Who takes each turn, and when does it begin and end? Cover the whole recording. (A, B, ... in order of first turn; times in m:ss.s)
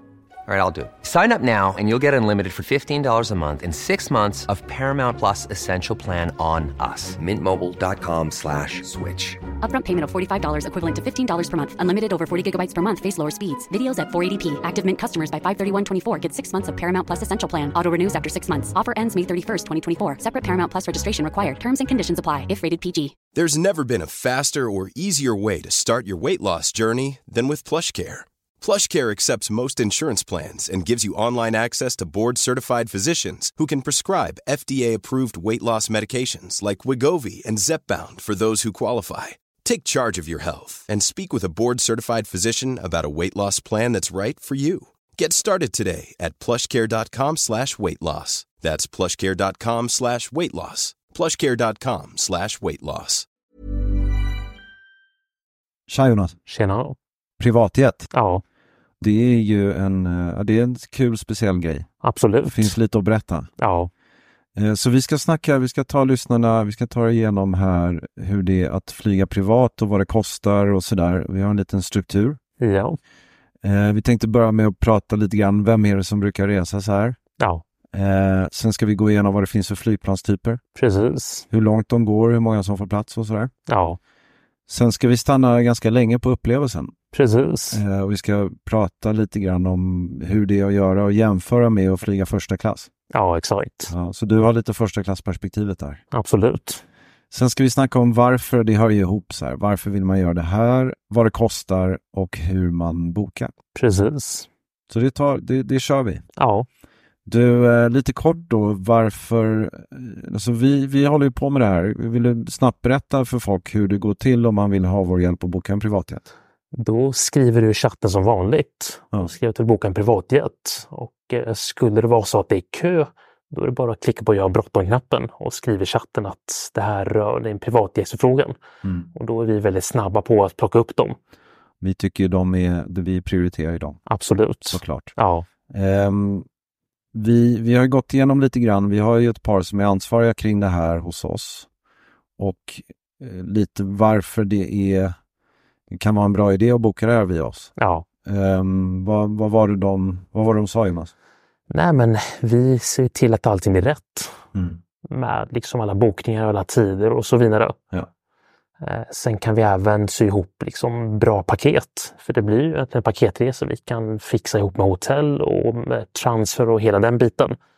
0:00.5-0:09.4 A
0:09.6-0:23.1 B
0:23.3-0:53.3 C
0:55.9-0:56.4 D
0:56.5-0:57.0 E
0:57.4-0:58.1 D
0:58.1-0:58.4 E
0:59.0-1:01.9 D
1:02.0-1:02.7 E
1:02.4-1:03.5 D
1:03.6-1:03.9 E
1:04.6-1:12.4 D
1:12.6-1:13.0 E
1:13.6-1:17.2 D
1:17.4-1:17.6 E
1:17.9-1:20.6 D
1:20.8-1:21.4 E
1:21.5-1:23.5 D
1:23.7-1:24.0 E
1:24.7-1:26.9 D
1:27.1-1:27.8 E
1:27.7-1:32.9 D
1:33.1-1:33.9 E
1:33.9-1:36.0 D
1:36.1-1:36.8 E
1:37.3-1:43.5 D
1:43.7-1:44.5 E
1:44.9-1:46.2 D
1:46.4-1:46.7 E
1:47.2-1:56.2 D
1:56.7-2:08.6 E
2:08.8-2:09.1 D
2:09.1-2:11.2 E
2:11.8-2:14.0 D
2:14.1-2:15.4 E
2:14.7-2:15.1 D
2:15.7-2:16.4 D
2:17.1-2:21.7 D
2:22.4-2:25.1 D
2:25.9-2:27.7 D
2:27.8-2:28.0 E
2:28.2-2:31.1 D
2:31.7-2:34.4 E
2:34.5-2:34.8 D
2:35.1-2:37.8 E
2:38.8-2:47.6 E